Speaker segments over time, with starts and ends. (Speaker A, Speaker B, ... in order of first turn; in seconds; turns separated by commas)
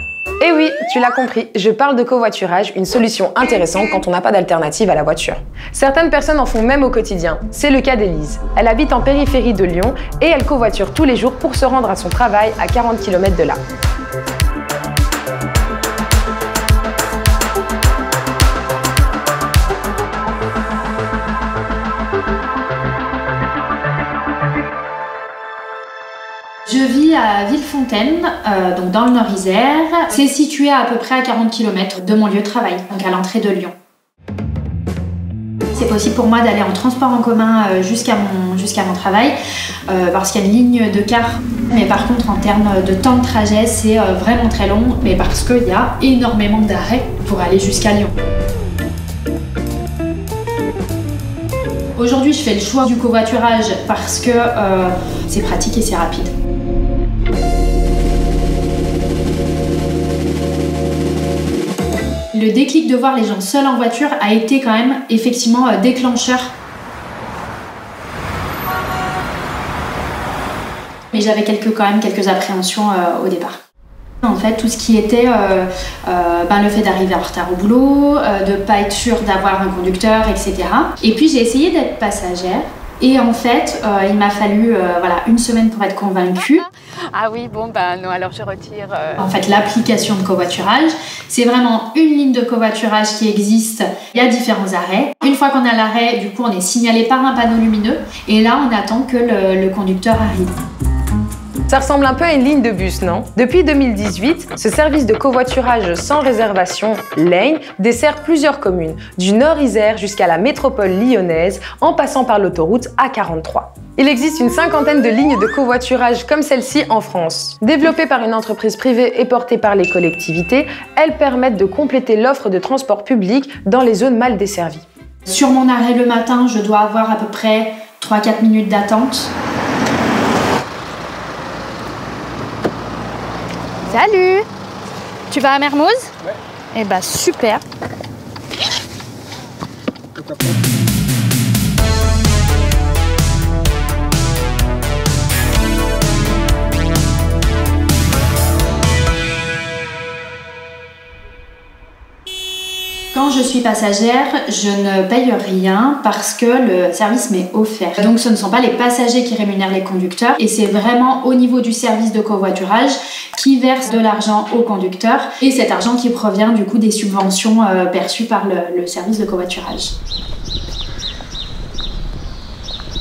Speaker A: 0.4-13.6, Speaker B: 26.7-33.7, Speaker B: 35.8-39.4, Speaker B: 39.9-48.1, Speaker B: 52.0-56.3, Speaker B: 62.3-66.5, Speaker B: 71.1-73.6, Speaker B: 74.2-86.7, Speaker C: 86.6-89.2, Speaker B: 89.2-100.5, Speaker A: 101.7-124.8, Speaker B: 125.3-129.3, Speaker B: 133.9-134.5, Speaker B: 135.3-136.1, Speaker C: 135.3-135.7, Speaker B: 136.8-137.6, Speaker C: 136.9-137.5, Speaker B: 153.1-169.9